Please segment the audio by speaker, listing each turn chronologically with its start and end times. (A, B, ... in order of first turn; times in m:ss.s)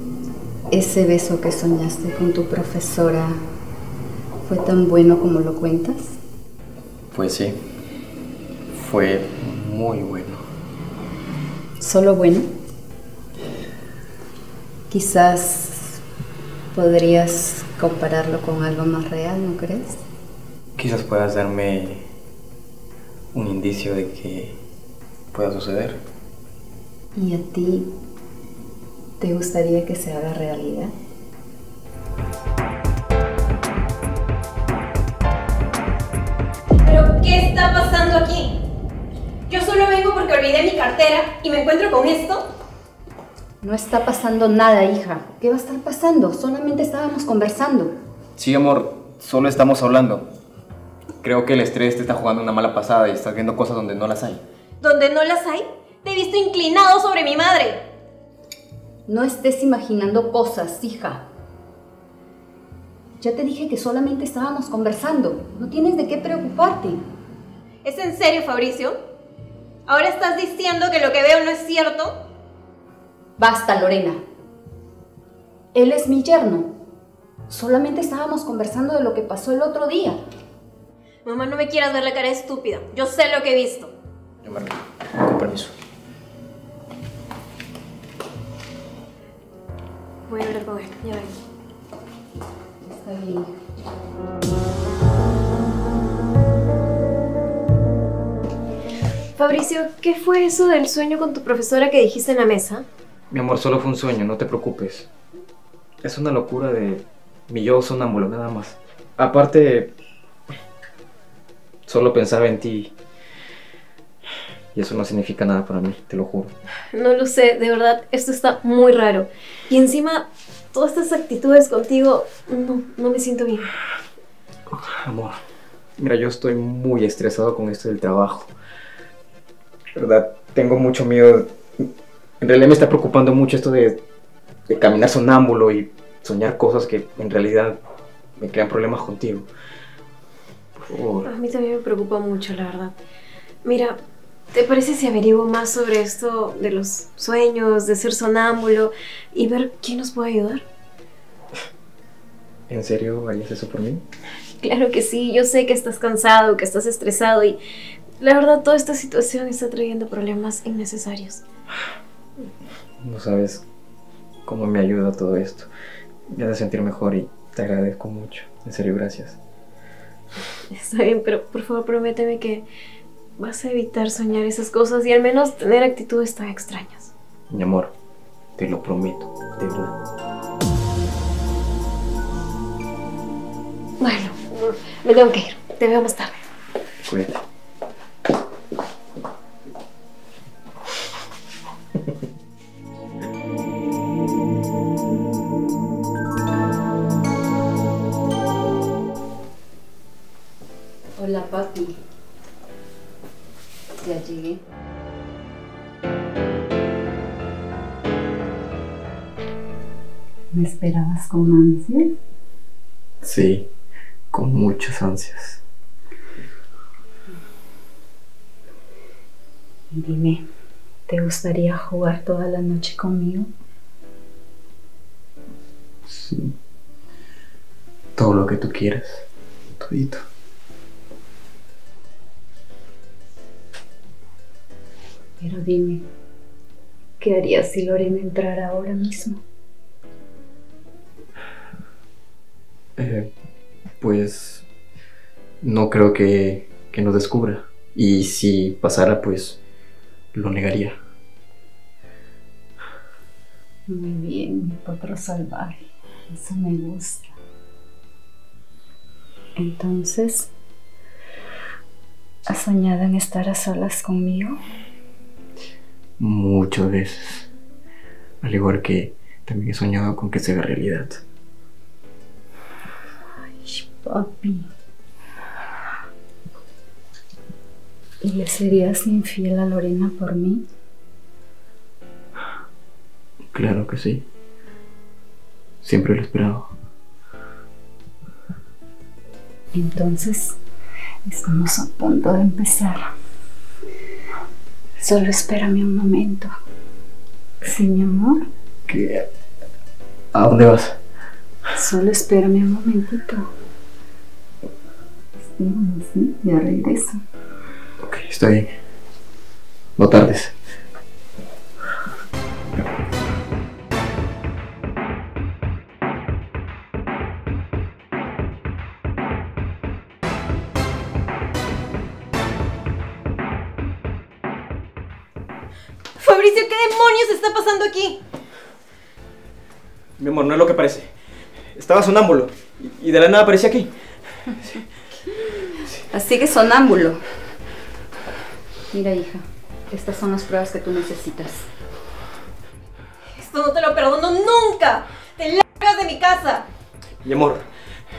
0:00.7-0:03.4 A
0:04.4-0:06.2 A
0:07.1-0:07.6 B
0:08.8-0:10.4 B
0:11.8-0:12.5 A
0:14.9-0:16.0 A
0:16.7-0:20.0 A
0:20.8-0:22.1 B
0:23.3-0:24.6 B
0:25.3-0:26.0 B
0:27.2-0:27.9 A
0:29.2-0:30.9 A
0:36.8-0:38.6 C
0:39.5-0:42.5 C
0:43.6-0:47.9 A
0:48.4-0:50.3 B
0:51.2-0:54.4 B
0:54.8-0:57.8 C
0:59.1-1:01.3 A
1:03.2-1:07.0 A
1:07.8-1:09.0 C
1:09.9-1:12.2 C
1:13.4-1:14.2 A
1:15.7-1:16.7 A
1:17.5-1:20.2 A
1:21.2-1:23.9 C
1:24.4-1:25.7 B
1:30.3-1:31.3 C
1:32.8-1:33.5 A
1:39.4-1:42.8 C
1:43.3-1:45.1 B
1:46.0-1:49.9 B
1:51.9-1:52.9 B
1:54.8-1:56.5 B
1:56.9-2:03.7 C
2:04.7-2:05.4 B
2:06.0-2:08.5 B
2:10.0-2:11.9 B
2:12.4-2:14.0 B
2:14.7-2:17.8 B
2:18.4-2:19.5 B
2:20.8-2:21.3 B
2:21.2-2:23.0 C
2:23.6-2:24.0 C
2:24.5-2:30.6 C
2:32.7-2:34.0 B
2:34.6-2:37.6 C
2:38.2-2:41.4 C
2:43.0-2:43.6 B
2:44.5-2:45.7 B
2:46.3-2:49.4 B
2:50.7-2:52.7 C
2:53.4-2:57.1 C
2:57.5-2:57.9 B
2:58.6-3:00.0 B
3:04.0-3:06.4 C
3:07.0-3:07.4 B
3:21.2-3:22.0 A
3:24.0-3:24.6 A
3:30.5-3:32.1 A
3:33.2-3:33.7 B
3:34.3-3:35.6 B
3:39.9-3:40.4 A
3:41.1-3:43.5 A
3:46.1-3:46.6 B
3:48.2-3:49.3 B
3:49.8-3:50.2 B
3:55.4-3:56.0 A
3:57.2-3:59.4 A
4:03.0-4:03.3 B
4:04.0-4:04.6 B
4:05.6-4:09.6 B
4:10.3-4:11.0 B
4:13.9-4:17.3 A
4:19.6-4:20.5 A
4:22.5-4:24.6 A
4:26.2-4:27.5 B
4:28.4-4:31.2 B
4:33.6-4:34.7 A
4:38.2-4:40.6 A
4:43.5-4:44.2 B
4:45.8-4:46.7 B
4:49.7-4:50.6 A
4:51.2-4:53.1 A
4:55.0-4:56.5 A
4:57.6-4:58.4 A
4:58.9-4:59.3 B
5:00.3-5:01.0 B
5:01.8-5:03.4 A
5:05.4-5:07.2 A
5:08.0-5:08.7 B
5:10.0-5:10.6 B
5:26.2-5:28.2 C
5:30.2-5:31.1 B
5:31.8-5:33.9 B
5:36.1-5:37.2 A
5:38.9-5:41.7 A
5:43.3-5:46.6 C
5:47.2-5:47.6 B